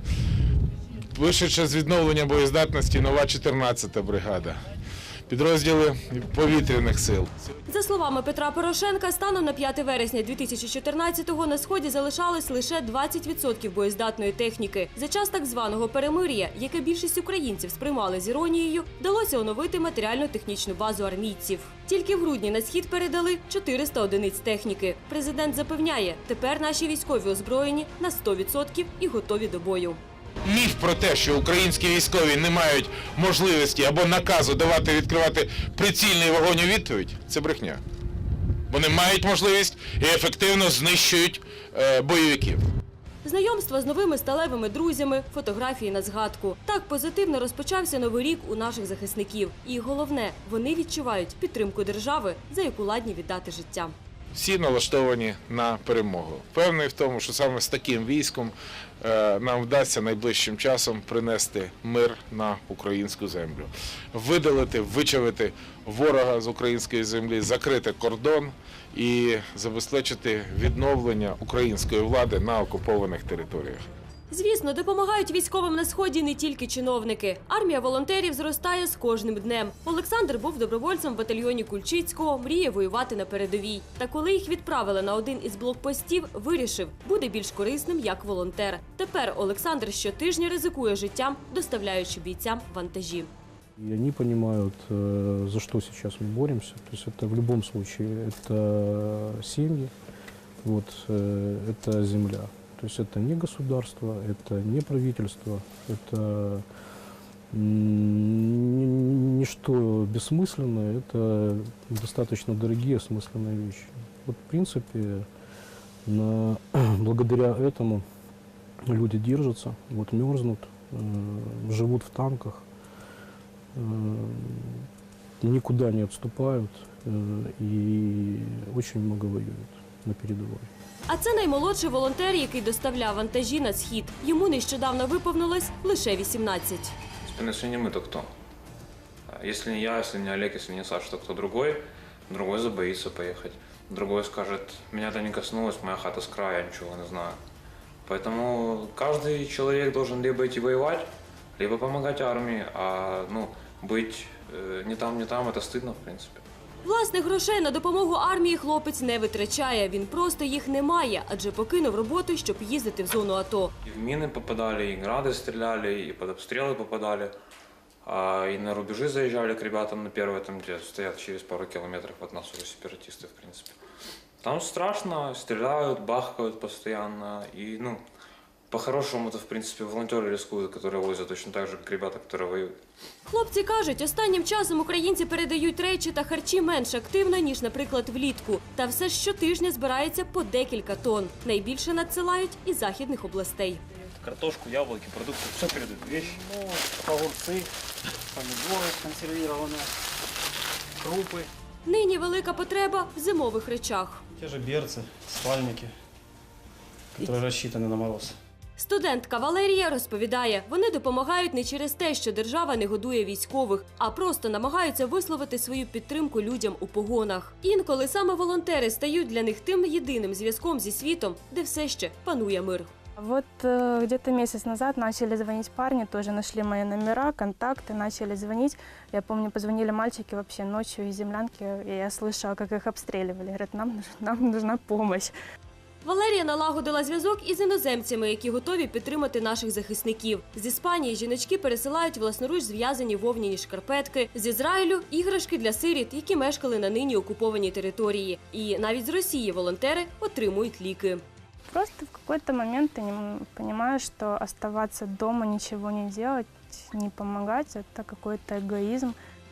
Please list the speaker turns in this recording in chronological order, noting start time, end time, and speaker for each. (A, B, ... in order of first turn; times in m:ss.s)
0:01.1-0:04.6 A
0:05.3-0:07.3 A
0:07.7-0:30.0 B
0:30.4-0:37.8 A
0:38.7-0:42.7 A
0:43.2-0:53.9 B
0:54.3-1:13.8 A
1:14.3-1:33.3 B
1:33.8-1:39.9 C
1:40.6-1:46.6 C
1:47.5-1:55.3 C
1:56.0-1:58.0 C
1:58.8-2:02.6 C
2:03.7-2:04.9 C
2:05.4-2:10.7 C
2:11.1-2:16.9 B
2:17.2-2:18.3 D
2:19.3-2:27.4 D
2:28.0-2:36.4 D
2:36.8-2:43.7 B
2:43.8-2:47.3 D
2:48.0-2:53.7 D
2:54.4-2:58.0 D
2:58.7-3:02.8 D
3:03.3-3:13.8 B
3:14.2-3:16.4 D
3:16.5-3:17.7 E
3:18.3-3:19.9 E
3:21.0-3:21.5 E
3:21.8-3:24.2 B
3:24.4-3:25.9 E
3:27.1-3:28.4 E
3:28.8-3:42.9 B
3:43.2-3:55.3 F
3:56.0-4:11.2 B
4:11.7-4:19.2 F